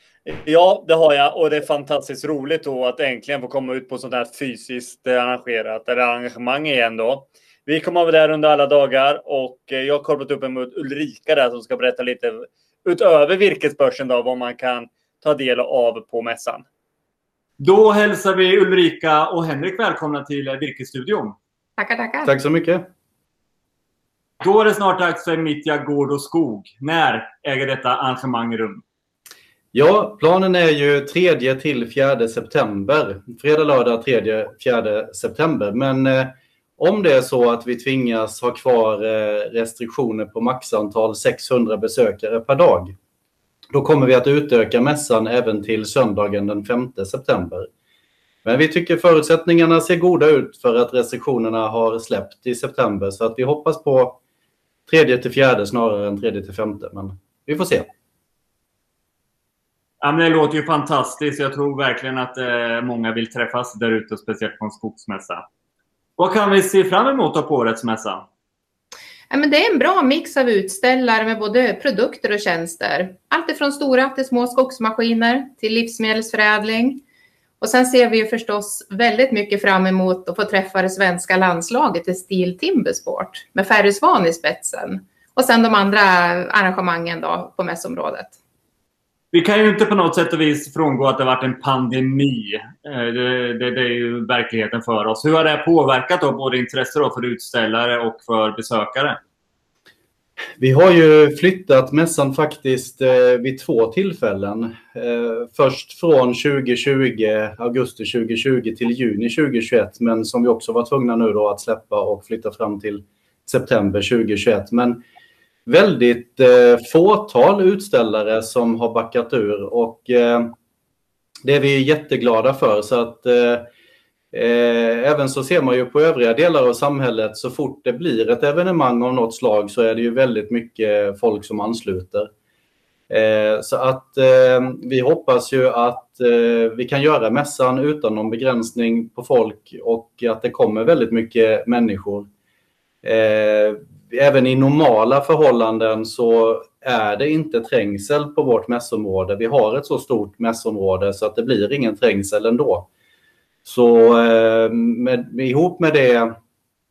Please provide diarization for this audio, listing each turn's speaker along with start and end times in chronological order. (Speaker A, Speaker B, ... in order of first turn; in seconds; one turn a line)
Speaker A: 0.2-16.6
Speaker A: 17.6-21.4
Speaker B: 21.8-22.3
Speaker C: 22.2-22.9
Speaker A: 24.4-28.8
Speaker C: 29.7-42.9
Speaker C: 43.7-47.7
Speaker C: 48.4-54.2
Speaker C: 54.9-57.9
Speaker A: 60.0-65.4
Speaker A: 66.2-68.2
Speaker B: 69.3-77.0
Speaker B: 77.6-88.3
Speaker A: 89.3-99.2
Speaker C: 100.6-115.0
Speaker C: 115.7-120.5
Speaker C: 121.5-123.7
Speaker C: 124.3-132.3
Speaker C: 133.1-142.3
Speaker C: 143.0-152.9
Speaker C: 153.6-156.3